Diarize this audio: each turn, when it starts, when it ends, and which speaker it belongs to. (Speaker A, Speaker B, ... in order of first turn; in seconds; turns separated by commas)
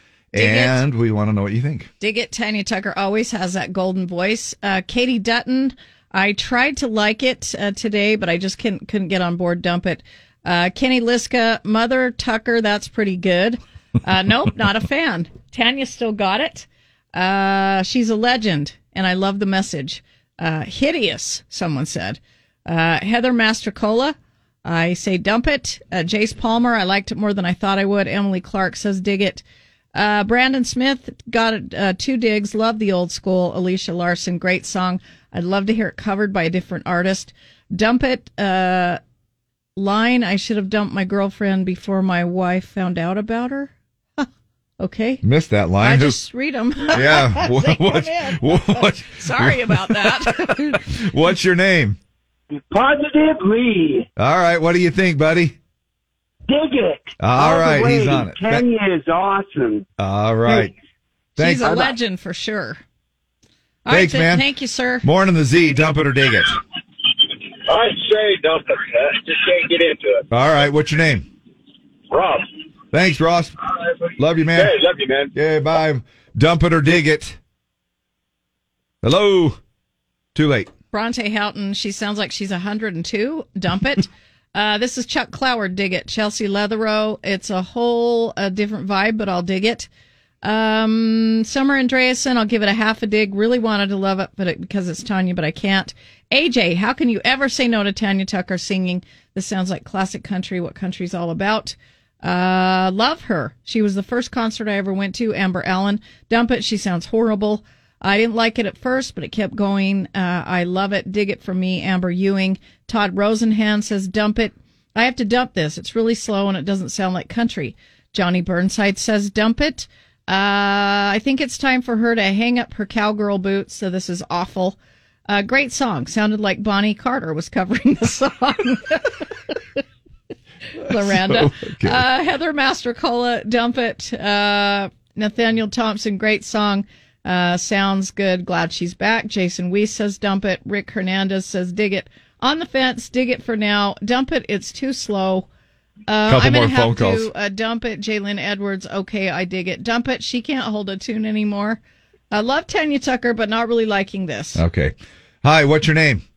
Speaker A: 0.3-1.9, Speaker B: 0.3-0.8, Speaker B: 2.0-29.4, Speaker B: 29.9-39.0, Speaker B: 39.8-44.3, Speaker B: 44.8-45.2, Speaker A: 45.2-46.2, Speaker B: 45.8-50.8, Speaker A: 46.9-52.0, Speaker C: 52.5-54.1, Speaker A: 54.2-55.6, Speaker C: 56.5-59.8, Speaker A: 57.2-58.6, Speaker A: 60.0-60.7, Speaker A: 61.4-61.9, Speaker B: 61.4-62.8, Speaker B: 63.9-65.0, Speaker A: 63.9-64.5, Speaker A: 65.0-66.6, Speaker D: 67.7-70.2, Speaker A: 70.3-71.3, Speaker D: 72.1-72.5, Speaker A: 72.9-73.5, Speaker A: 74.2-74.8, Speaker D: 74.5-75.3, Speaker A: 75.3-77.4, Speaker A: 79.0-79.6, Speaker A: 80.3-80.7, Speaker B: 80.9-89.9, Speaker B: 90.4-129.2, Speaker B: 130.8-145.5, Speaker A: 130.9-132.1, Speaker B: 146.1-154.6, Speaker A: 146.3-147.3, Speaker A: 154.5-156.2